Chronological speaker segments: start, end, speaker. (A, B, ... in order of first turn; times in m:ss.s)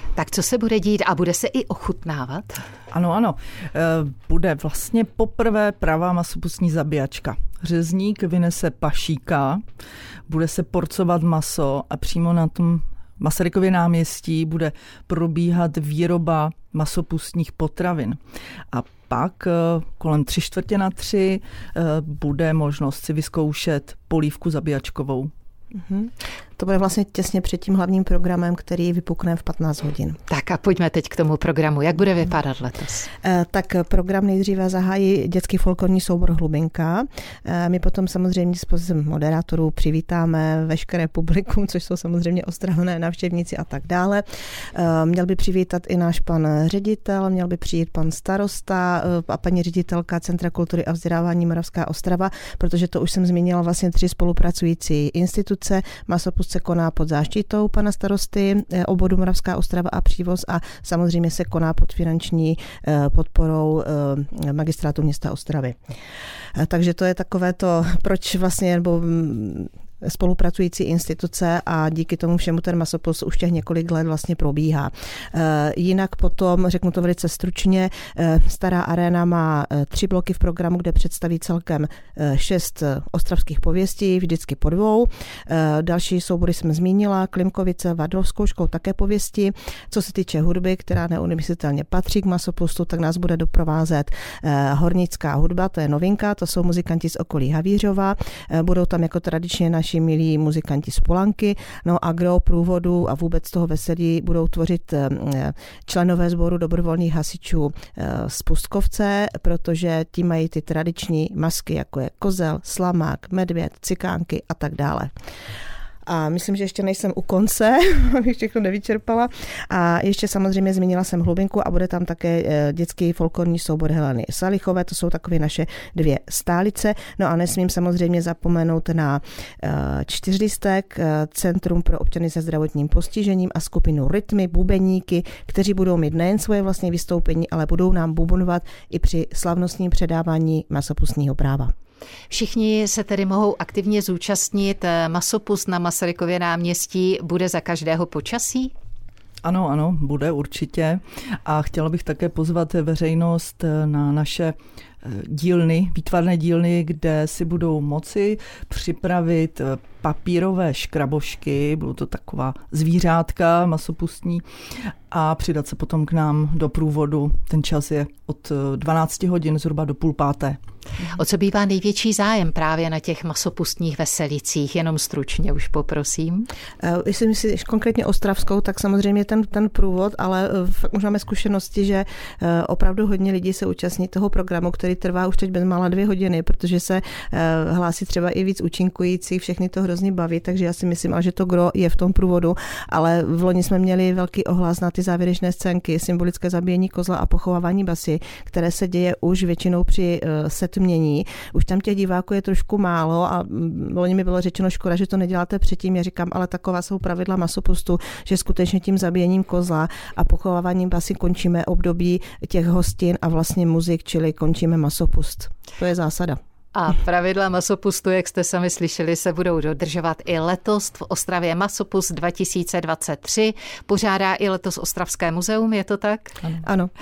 0:00.1-0:02.6 A
0:02.9-0:09.6 B
0:10.3-0:18.2 B
0:18.7-0:25.3 B
0:25.7-0:30.2 C
0:30.3-0:33.1 A
0:33.2-1:05.8 C
1:06.6-1:55.1 C
1:56.0-2:21.7 C
2:22.3-2:28.7 A
2:29.4-2:44.4 B
2:45.1-2:50.6 B
2:51.1-2:56.5 A
2:56.8-3:36.4 C
3:36.7-3:46.6 A
3:46.6-3:46.9 C